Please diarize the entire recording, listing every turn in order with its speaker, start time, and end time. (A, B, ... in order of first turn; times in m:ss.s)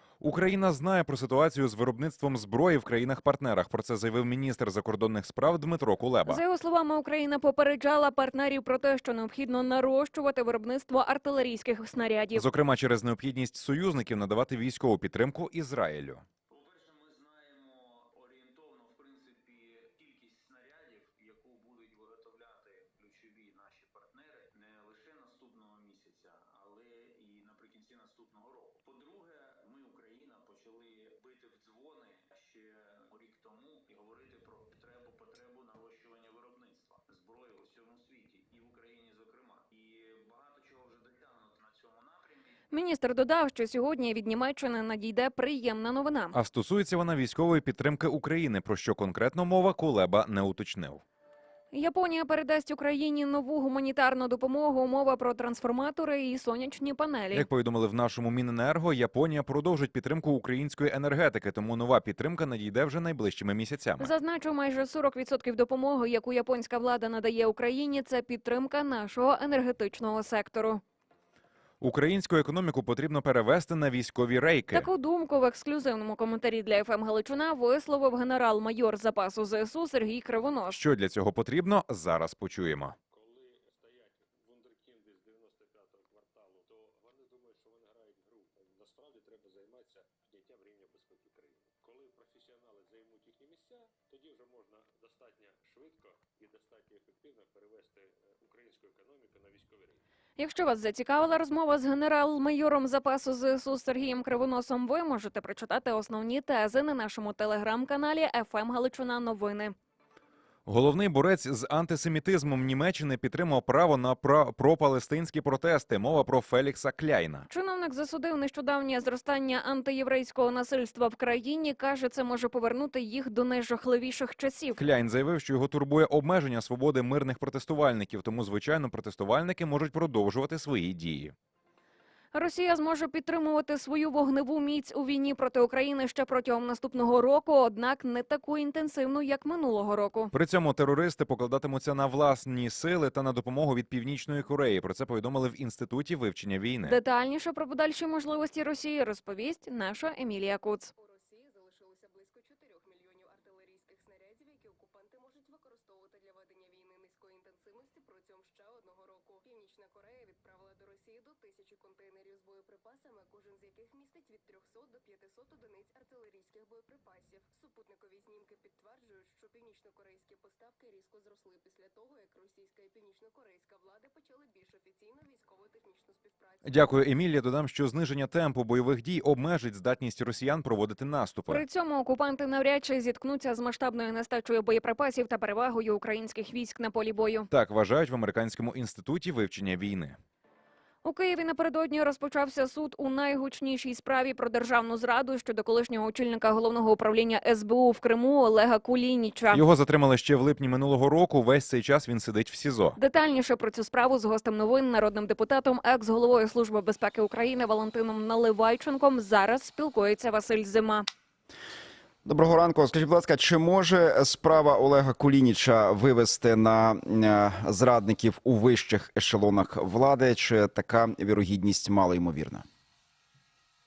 0:00.2-0:06.4 A
0:06.3-0:12.4 B
0:12.4-0:16.2 A
0:16.5-0:42.6 C
0:42.7-0:46.4 B
0:46.3-0:51.0 A
0:51.7-0:57.5 B
0:57.3-1:04.1 A
1:04.0-1:10.8 B
1:11.8-1:14.9 A
1:14.7-1:20.8 B
1:20.7-1:23.0 A
1:23.1-1:40.0 D
1:40.4-1:49.8 B
1:50.7-1:57.5 A
1:57.5-2:04.8 B
2:04.8-2:11.3 A
2:12.3-2:20.3 B
2:20.3-2:27.0 A
2:26.8-2:30.9 B
2:31.0-2:57.0 E
2:56.6-3:01.6 A
3:01.5-3:07.5 B
3:07.5-3:10.2 A
3:11.0-3:19.6 B
3:19.5-3:23.0 A
3:23.0-3:31.1 B
3:32.2-3:42.6 F